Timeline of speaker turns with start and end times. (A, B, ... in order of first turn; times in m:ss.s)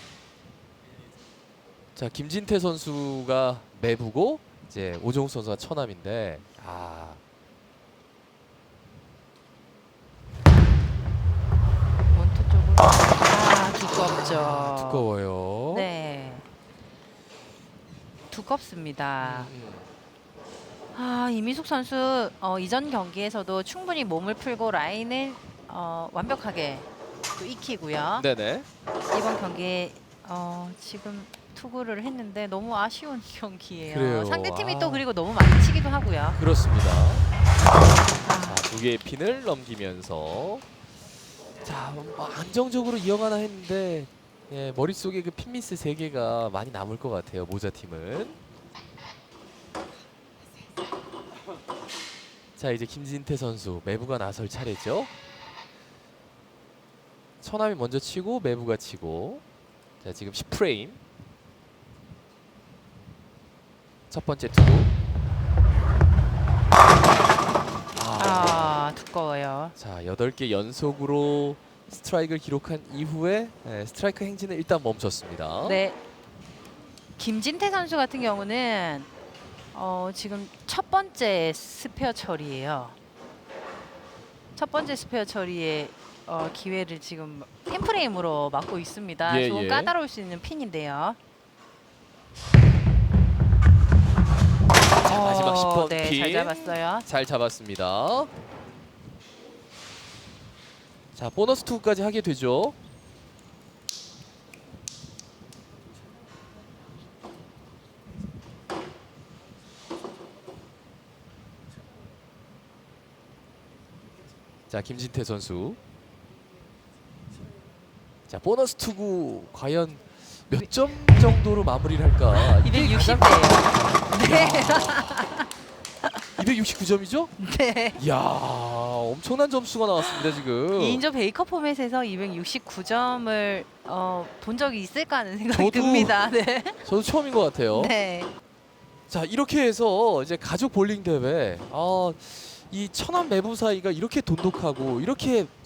0:01.9-0:07.2 A
0:12.1-0:15.0 B
0:14.5-0:15.9 A
0:15.7-0:16.5 B
0:18.3-0:19.5 B
0:19.2-0:19.9 A
0:20.9-0:28.2 B
0:28.2-0:28.7 A
0:29.1-0:36.4 B
0:33.8-0:35.0 A
0:36.4-0:37.2 A
0:38.2-0:38.6 B
0:38.4-0:40.6 A
0:41.6-0:48.4 A
0:52.6-0:55.1 A
0:57.4-0:59.4 A
1:00.0-1:01.0 A
1:04.1-1:04.9 A
1:07.9-1:08.8 A
1:08.2-1:09.8 B
1:09.8-1:15.8 A
1:15.6-1:16.0 B
1:17.2-1:19.1 B
1:19.7-1:23.0 B
1:24.6-1:31.2 B
1:29.2-1:29.9 A
1:35.0-1:37.1 B
1:35.0-1:38.3 A
1:41.1-1:42.8 A
1:54.7-1:55.8 A
1:58.3-2:05.0 A
2:00.6-2:01.4 B
2:02.3-2:05.5 B
2:06.4-2:07.3 A
2:07.4-2:08.0 B
2:08.0-2:11.0 A
2:10.0-2:16.8 B
2:15.5-2:16.2 A
2:16.8-2:17.9 A
2:17.7-2:18.3 B
2:19.1-2:25.5 A